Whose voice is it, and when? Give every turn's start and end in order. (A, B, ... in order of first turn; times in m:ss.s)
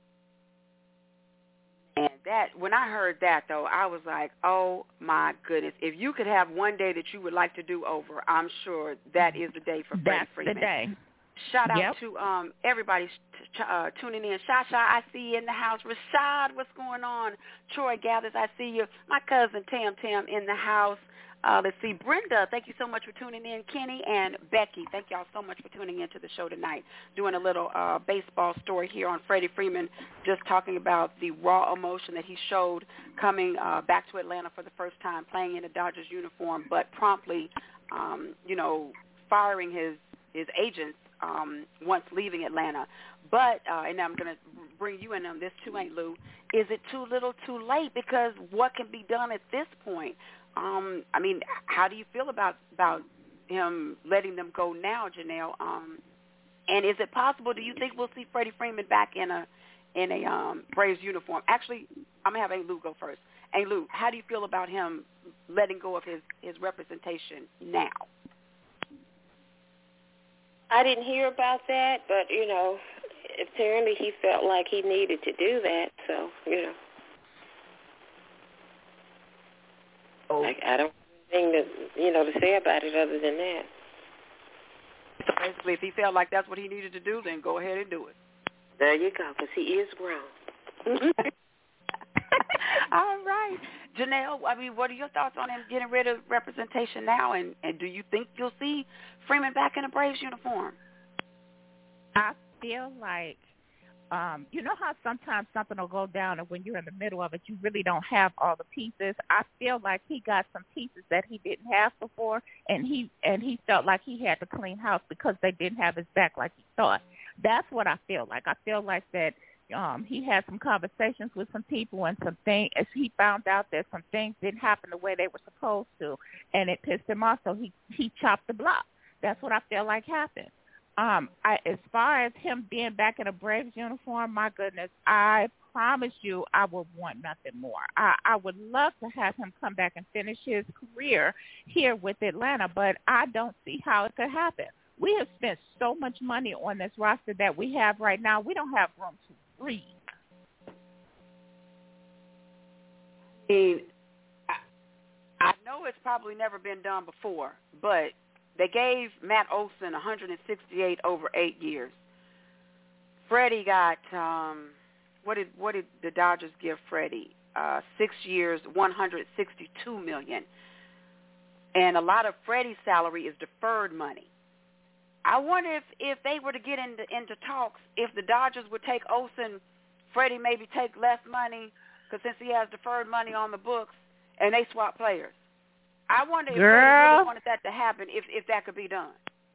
0:02.0-0:10.7 A
0:09.9-0:10.9 B
0:11.4-0:56.0 A
0:11.7-0:12.0 B
0:56.7-1:08.1 A
1:10.7-1:16.8 C
1:20.3-1:20.5 A
1:20.4-1:23.7 C
1:25.2-1:28.1 A
1:28.8-1:30.3 C
1:30.9-1:31.3 A
1:32.5-1:40.8 A
1:42.1-1:43.4 B
1:44.1-2:30.0 B
2:33.5-2:33.8 A
2:35.4-2:41.9 A
2:43.3-2:50.5 A
2:51.7-2:54.3 A
2:55.2-2:59.6 A
3:00.1-3:05.3 A
3:06.1-3:09.2 A
3:06.5-3:07.3 B